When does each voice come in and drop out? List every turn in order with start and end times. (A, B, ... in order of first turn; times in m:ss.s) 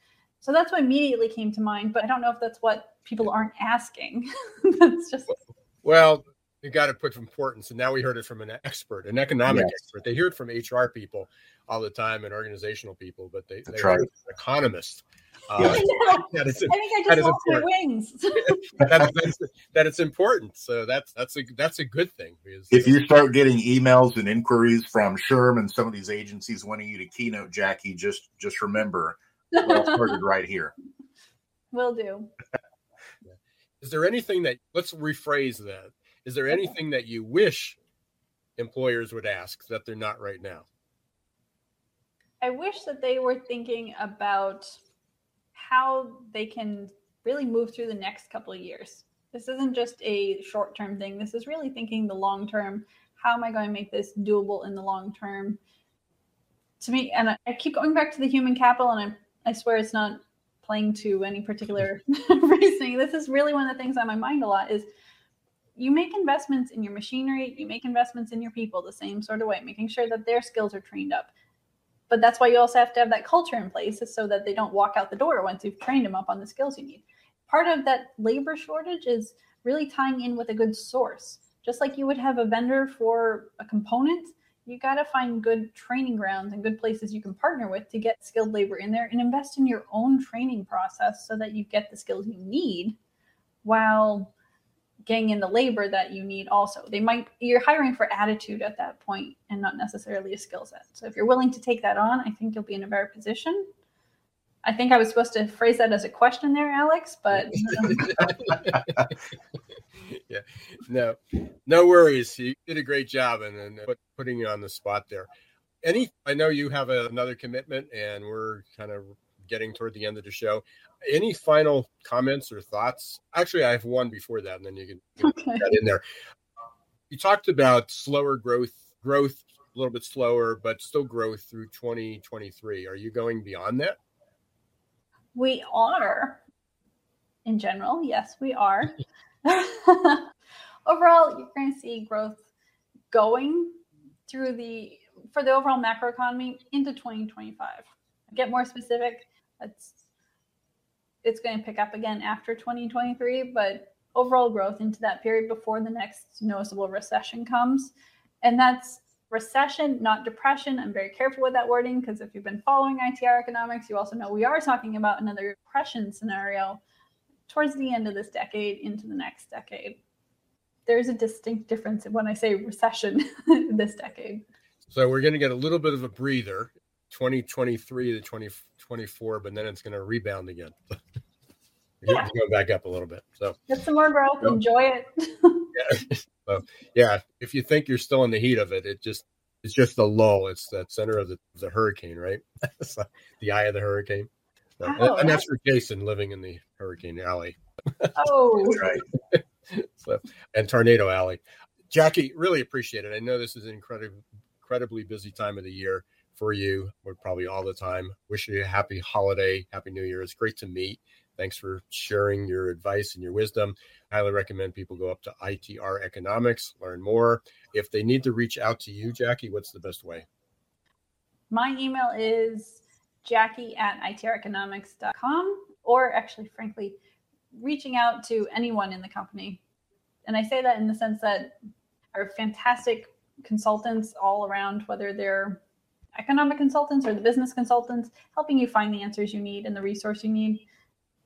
0:00.4-0:05.3 A
0:05.3-0:17.7 B
0:09.5-0:09.7 C
0:13.7-0:14.0 C
0:15.6-0:18.6 A
0:18.4-0:23.0 B
0:22.7-0:30.7 C
0:29.6-0:30.1 A
0:31.7-0:32.3 A
0:33.3-0:37.8 B
0:38.6-0:40.6 B
0:42.4-0:44.8 A
0:45.5-0:55.6 A
0:56.8-1:04.8 A
1:05.8-1:11.3 A
1:12.1-1:33.0 A
1:33.6-1:34.3 A
1:35.0-1:43.7 A
1:44.6-1:48.3 A
1:47.3-1:49.1 B
1:50.0-1:55.3 B
1:55.8-2:06.0 B
2:05.2-2:05.7 A
2:07.1-2:14.0 B
2:15.3-2:16.4 A
2:17.4-2:20.2 A
2:20.8-2:22.4 A
2:23.1-2:23.8 A
2:24.3-2:30.0 A
2:31.2-2:46.8 A
2:47.5-2:50.0 A
2:50.9-2:54.4 A
2:54.9-3:01.0 B
3:02.0-3:03.6 B
3:03.7-3:05.7 A
3:05.7-3:14.3 B
3:14.8-3:18.1 B
3:14.8-3:15.4 A
3:18.2-3:18.8 A
3:18.7-3:19.0 C
3:19.3-3:40.2 B
3:41.5-3:47.0 A
3:47.5-3:49.6 A
3:50.2-3:51.5 A
3:52.1-3:55.6 A
3:56.1-4:00.6 A